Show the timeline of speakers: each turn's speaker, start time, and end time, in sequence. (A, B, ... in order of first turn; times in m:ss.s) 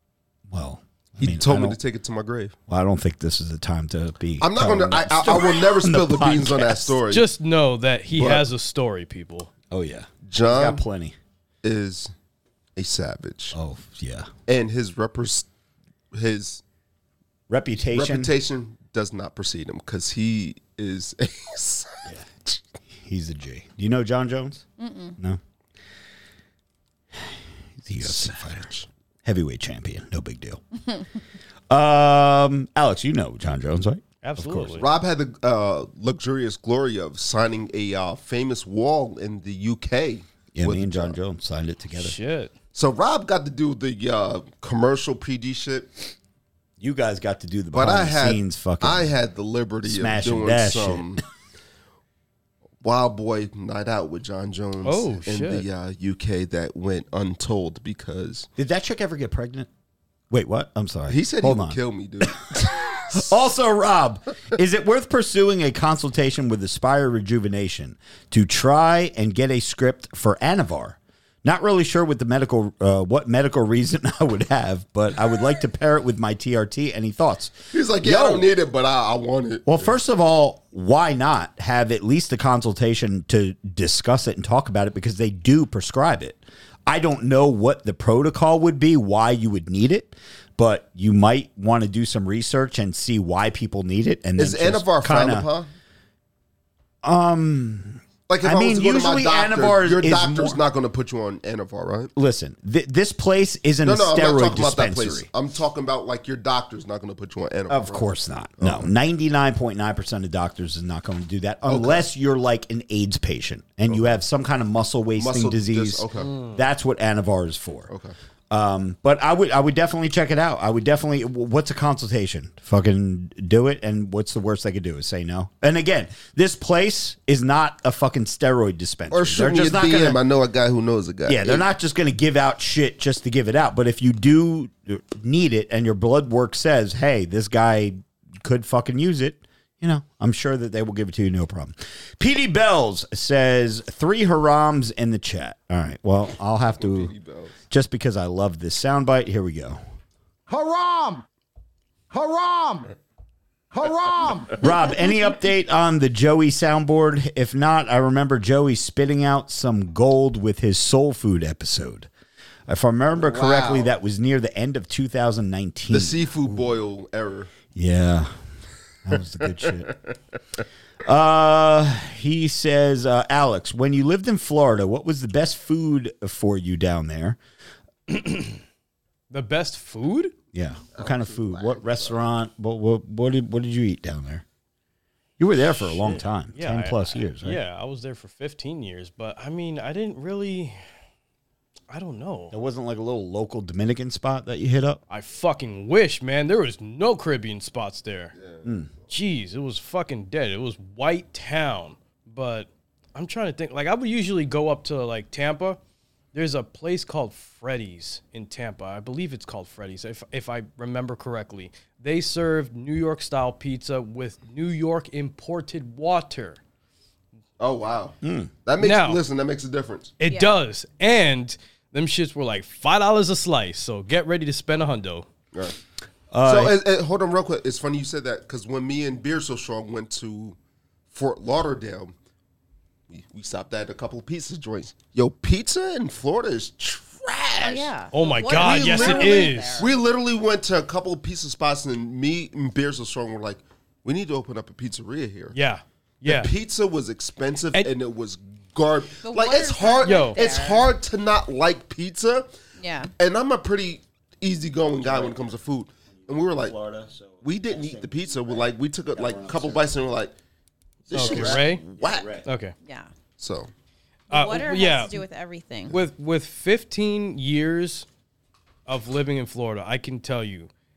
0:00.5-0:01.8 A
0:01.2-0:02.6 B
0:02.7-0:07.0 A
0:04.4-0:07.2 B
0:07.1-0:09.5 C
0:08.2-0:08.5 B
0:09.7-0:11.2 A
0:10.3-0:10.8 B
0:11.6-0:12.1 B
0:12.8-0:13.6 B
0:13.5-0:14.3 A
0:14.5-0:15.5 B
0:16.1-0:16.6 B
0:17.5-0:18.3 A
0:17.9-0:22.1 B
0:23.0-0:24.6 A
0:24.8-0:25.2 D
0:27.8-0:28.7 A
0:28.0-0:28.9 B
0:29.2-0:30.6 A
0:31.7-0:34.8 A
0:34.2-0:34.9 C
0:34.8-0:41.2 B
0:40.6-0:42.2 A
0:42.0-0:42.5 C
0:42.7-0:45.9 B
0:46.8-0:49.1 A
0:47.7-0:51.2 B
0:49.8-0:51.2 A
0:52.8-0:58.5 B
0:54.8-0:55.7 C
0:58.6-0:59.7 A
1:00.3-1:18.5 A
1:01.1-1:03.3 B
1:17.7-1:19.9 B
1:19.7-1:35.5 A
1:34.4-1:35.7 B
1:37.0-1:40.6 A
1:38.3-1:42.1 B
1:42.2-1:45.3 A
1:43.8-1:48.9 B
1:47.7-1:57.9 A
1:51.7-1:52.0 B
1:55.2-1:56.3 B
1:56.2-1:56.6 C
1:57.9-1:58.2 B
1:58.5-2:10.2 A
2:09.1-2:11.6 B
2:11.3-2:27.1 A
2:26.8-2:27.6 B
2:27.7-2:29.8 A
2:30.5-2:31.2 E
2:32.1-2:32.9 E
2:33.7-2:34.6 E
2:34.6-2:42.1 A
2:42.7-2:46.7 A
2:43.2-2:43.9 B
2:45.9-2:47.5 B
2:47.7-2:48.3 A
2:49.0-2:49.9 A
2:49.6-2:50.2 B
2:51.0-2:57.4 A
2:58.1-2:58.6 C
2:59.3-3:00.3 C
3:00.5-3:04.4 A
3:01.0-3:02.2 B
3:05.4-3:07.6 A
3:05.7-3:10.8 C
3:11.9-3:12.6 C
3:12.5-3:15.0 A
3:15.1-3:18.3 C
3:18.4-3:18.6 B
3:18.6-3:18.9 A
3:19.1-3:25.8 C
3:26.3-3:36.6 C
3:37.6-3:40.1 B
3:38.2-3:38.5 A
3:38.8-3:39.2 C
3:40.2-3:45.3 C
3:40.2-3:40.6 D
3:46.3-3:46.8 A
3:46.4-3:50.6 B
3:51.1-3:52.1 B
3:53.1-3:57.9 B
3:57.6-3:59.9 D
3:58.1-3:59.9 C
3:58.5-4:05.6 B
4:05.5-4:06.5 C
4:06.3-4:12.5 B
4:09.2-4:10.9 D
4:10.0-4:10.4 C
4:12.8-4:13.1 D
4:13.2-4:16.8 B
4:15.0-4:15.5 A
4:16.3-4:19.9 A
4:17.4-4:20.3 B
4:21.1-4:22.4 B
4:21.1-4:22.4 A
4:21.1-4:21.8 C
4:22.4-4:22.7 C
4:22.8-4:23.1 D
4:23.4-4:23.7 B
4:24.3-4:25.2 C
4:24.3-4:26.0 D
4:25.9-4:28.1 C
4:28.9-4:30.7 C